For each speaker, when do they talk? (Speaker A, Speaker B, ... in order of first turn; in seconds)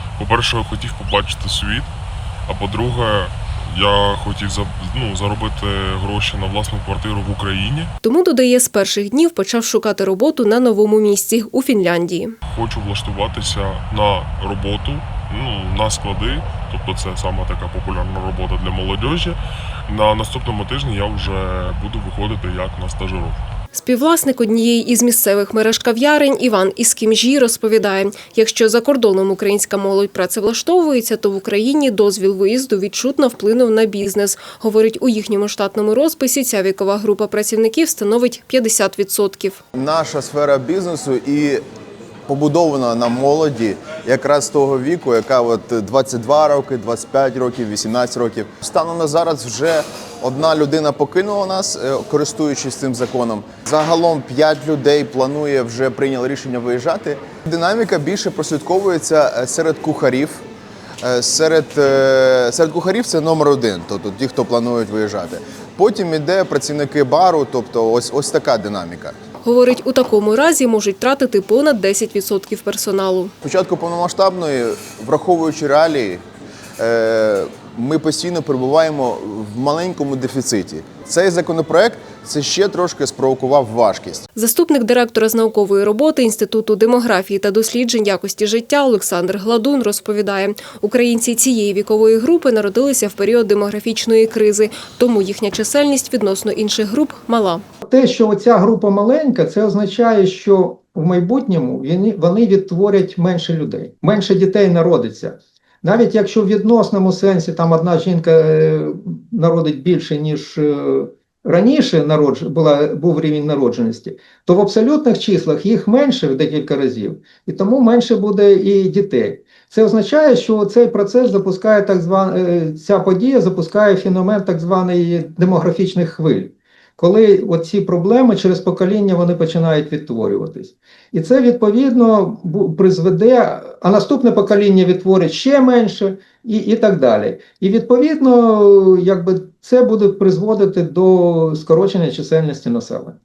Speaker A: 0.2-1.9, 2.5-7.9, 12.5-23.4
Speaker B: 8.0-12.4, 23.7-39.6, 69.4-73.3, 84.3-97.6
Speaker C: 39.7-41.6, 42.3-60.4, 61.0-69.2, 73.4-76.2, 76.8-84.2
Speaker D: 97.8-143.2